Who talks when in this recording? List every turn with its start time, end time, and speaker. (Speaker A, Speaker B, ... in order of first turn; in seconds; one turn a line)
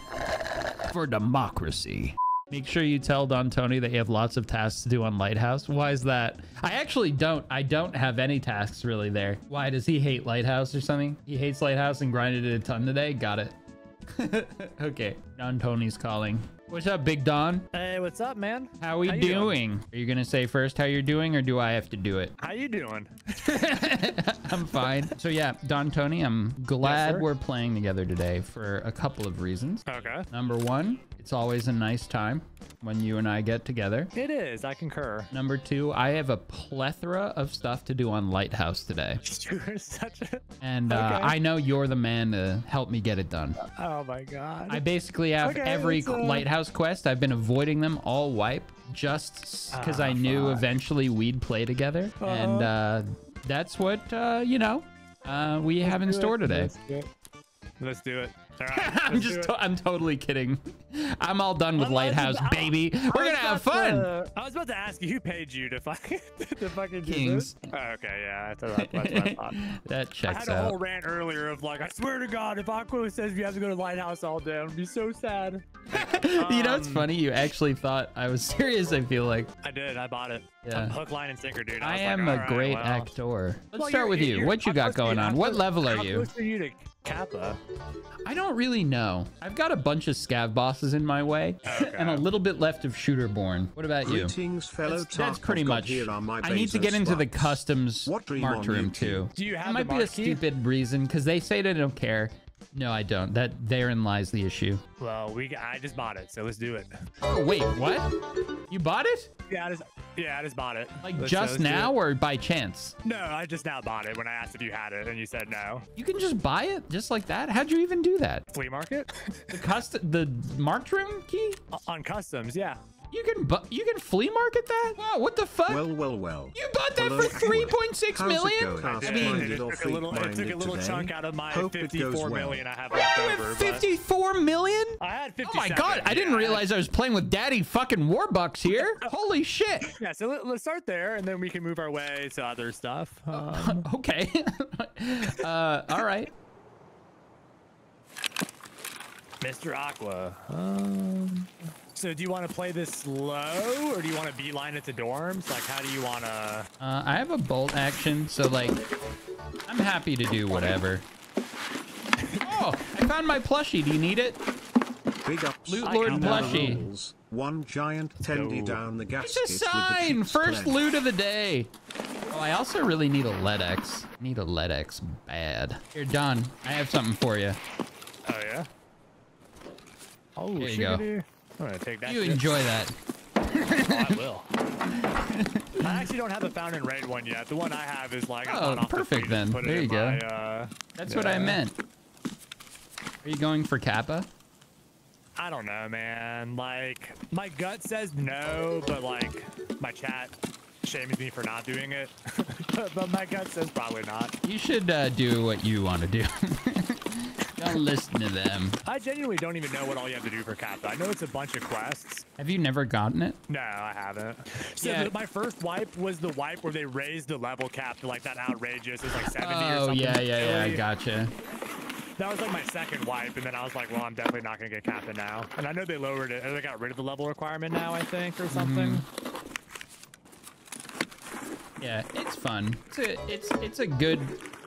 Speaker A: 0.9-13.5
Speaker A: 14.1-17.7
Speaker B: 17.7-19.6
Speaker A: 18.8-22.4
Speaker B: 22.4-23.7
Speaker A: 23.4-34.1
Speaker B: 26.8-27.3
Speaker B: 29.9-30.3
Speaker B: 34.1-35.3
Speaker A: 35.3-39.2
Speaker B: 39.2-41.4
Speaker A: 40.6-43.6
Speaker B: 43.6-44.8
Speaker A: 44.7-56.7
Speaker B: 45.4-46.5
Speaker B: 49.7-50.6
Speaker B: 52.2-52.7
Speaker B: 55.8-57.1
Speaker B: 57.8-59.5
Speaker A: 58.7-64.1
Speaker B: 61.8-69.6
Speaker A: 67.1-67.7
Speaker A: 68.8-70.8
Speaker B: 70.3-77.1
Speaker A: 75.9-79.5
Speaker B: 79.6-83.1
Speaker A: 80.7-81.0
Speaker A: 81.8-86.3
Speaker B: 83.8-87.6
Speaker A: 88.3-104.8
Speaker B: 91.7-92.2
Speaker C: 94.0-99.3
Speaker B: 99.4-100.4
Speaker B: 105.0-106.9
Speaker A: 107.3-108.1
Speaker A: 108.7-109.3
Speaker B: 109.5-111.9
Speaker A: 111.0-113.0
Speaker B: 113.0-115.9
Speaker A: 116.0-118.5
Speaker B: 118.5-119.5
Speaker A: 119.5-121.6
Speaker B: 121.7-122.8
Speaker A: 123.1-125.8
Speaker C: 125.7-132.6
Speaker A: 126.5-129.7
Speaker B: 129.0-133.8
Speaker A: 132.9-139.9
Speaker B: 135.0-136.7
Speaker B: 138.8-139.1
Speaker B: 139.9-143.9
Speaker A: 143.3-146.3
Speaker B: 149.4-156.7
Speaker A: 156.8-158.8
Speaker A: 159.7-161.1
Speaker B: 160.5-160.8
Speaker B: 162.2-162.6
Speaker A: 162.4-164.4
Speaker C: 165.2-170.8
Speaker A: 165.7-166.8
Speaker B: 165.8-166.8
Speaker B: 168.2-168.8
Speaker A: 169.2-171.7
Speaker A: 172.3-177.6
Speaker B: 178.3-178.7
Speaker B: 180.4-182.5
Speaker A: 180.6-181.0
Speaker A: 182.1-182.9
Speaker A: 183.5-184.2
Speaker B: 183.9-184.5
Speaker A: 184.9-186.1
Speaker B: 185.8-191.6
Speaker A: 188.5-190.2
Speaker A: 191.0-191.8
Speaker A: 193.2-194.3
Speaker B: 195.4-200.3
Speaker B: 200.8-204.3
Speaker A: 204.4-208.8
Speaker B: 208.8-212.2
Speaker A: 212.4-213.4
Speaker B: 213.5-220.8
Speaker A: 214.8-215.1
Speaker A: 219.1-221.3
Speaker B: 222.2-229.1
Speaker A: 228.5-229.0
Speaker A: 231.8-234.4